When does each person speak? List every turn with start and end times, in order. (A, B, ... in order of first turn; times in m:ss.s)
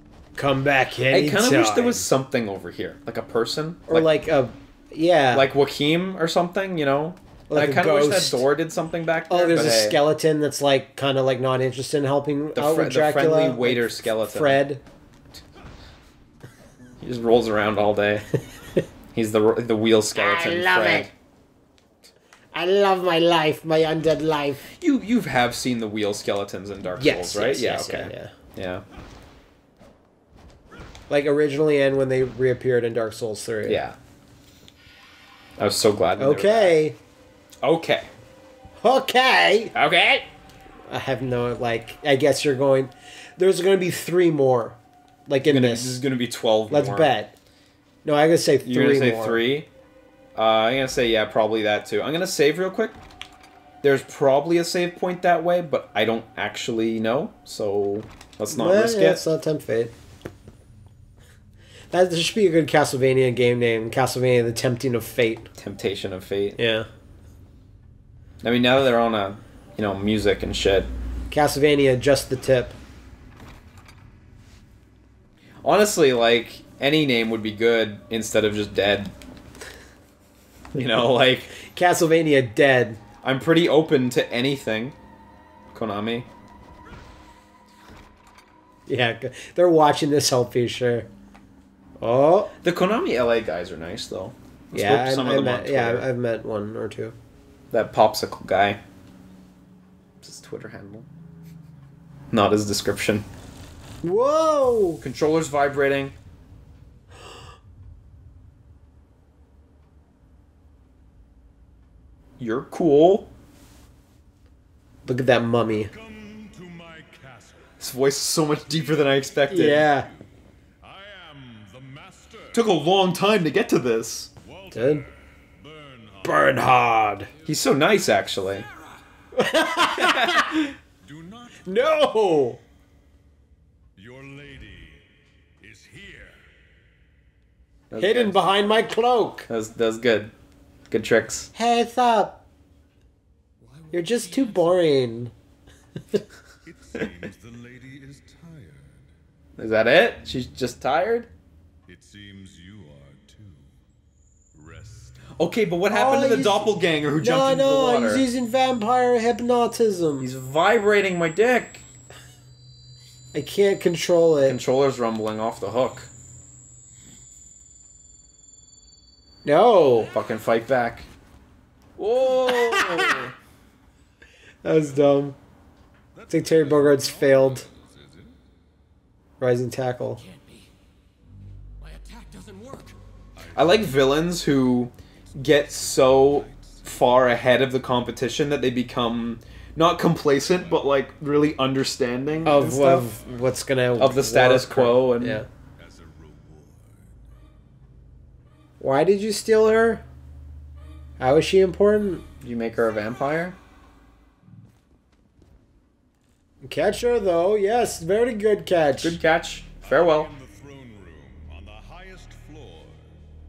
0:00.4-0:02.1 A
0:01.1-0:04.1 B
0:03.9-0:05.5 A
0:05.3-0:10.0 B
0:07.5-0:08.5 A
0:09.3-0:14.8 A
0:12.5-0:14.6 B
0:17.0-0:18.2 B
0:19.1-0:21.1 B
0:20.2-0:21.1 A
0:22.5-0:24.6 A
0:24.7-0:28.8 B
0:27.0-0:28.3 A
0:31.1-0:33.8 A
0:33.6-0:34.0 B
0:35.6-0:36.8 B
0:36.2-0:37.0 A
0:37.6-0:38.1 B
0:38.8-0:39.8 A
0:39.8-0:40.3 B
0:40.9-0:46.0 A
0:45.5-0:47.1 B
0:46.7-0:47.3 A
0:48.0-0:49.4 A
0:48.6-0:49.7 B
0:50.4-0:53.0 B
0:53.8-0:59.2 B
0:58.5-0:59.9 A
1:01.9-1:05.5 A
1:05.6-1:06.6 B
1:06.6-1:06.9 A
1:08.4-1:10.9 B
1:11.3-1:12.8 A
1:15.6-1:19.1 B
1:20.7-1:21.5 B
1:21.5-1:23.0 A
1:23.2-1:25.0 B
1:25.7-1:26.3 B
1:28.9-1:31.1 A
1:32.0-1:32.5 A
1:32.6-1:36.1 B
1:34.7-1:37.1 A
1:37.7-1:38.8 B
1:40.2-1:41.1 B
1:42.3-1:43.3 B
1:44.0-1:45.0 A
1:45.0-1:46.1 B
1:52.4-1:53.3 B
1:55.1-1:55.9 A
1:55.9-1:57.8 C
1:57.8-1:59.9 B
1:58.4-2:00.2 C
1:59.5-2:00.1 A
2:00.8-2:02.8 C
2:02.5-2:04.3 B
2:04.4-2:06.9 C
2:04.7-2:05.1 A
2:06.2-2:07.3 A
2:07.3-2:09.0 D
2:07.4-2:08.7 B
2:09.3-2:10.6 A
2:09.8-2:10.7 B
2:11.0-2:12.1 C
2:11.6-2:12.6 A
2:14.0-2:15.1 C
2:15.6-2:16.5 C
2:17.9-2:18.4 B
2:18.0-2:19.5 A
2:19.5-2:20.3 B
2:20.9-2:21.5 B
2:21.6-2:22.4 A
2:23.6-2:25.1 D
2:23.9-2:25.3 A
2:26.6-2:29.1 C
2:29.6-2:31.3 B
2:31.9-2:33.8 C
2:34.5-2:35.4 C
2:35.4-2:38.2 B
2:35.9-2:40.3 A
2:40.2-2:41.8 B
2:43.3-2:44.6 A
2:44.4-2:46.1 B
2:49.4-2:50.1 A
2:50.1-2:51.1 B
2:52.0-2:53.3 B
2:52.3-2:53.2 A
2:54.6-2:55.4 A
2:54.7-2:55.0 C
2:56.1-2:58.4 C
2:56.3-2:57.7 A
2:59.4-3:00.2 A
3:00.2-3:00.7 D
3:01.8-3:03.0 D
3:03.3-3:04.3 C
3:03.6-3:13.1 B
3:05.3-3:07.1 C
3:10.3-3:10.9 C
3:12.4-3:15.5 A
3:14.0-3:15.4 B
3:15.8-3:17.2 C
3:18.8-3:20.0 A
3:21.2-3:22.2 A
3:22.4-3:23.6 B
3:26.6-3:29.2 A
3:29.0-3:30.3 B
3:29.8-3:33.2 C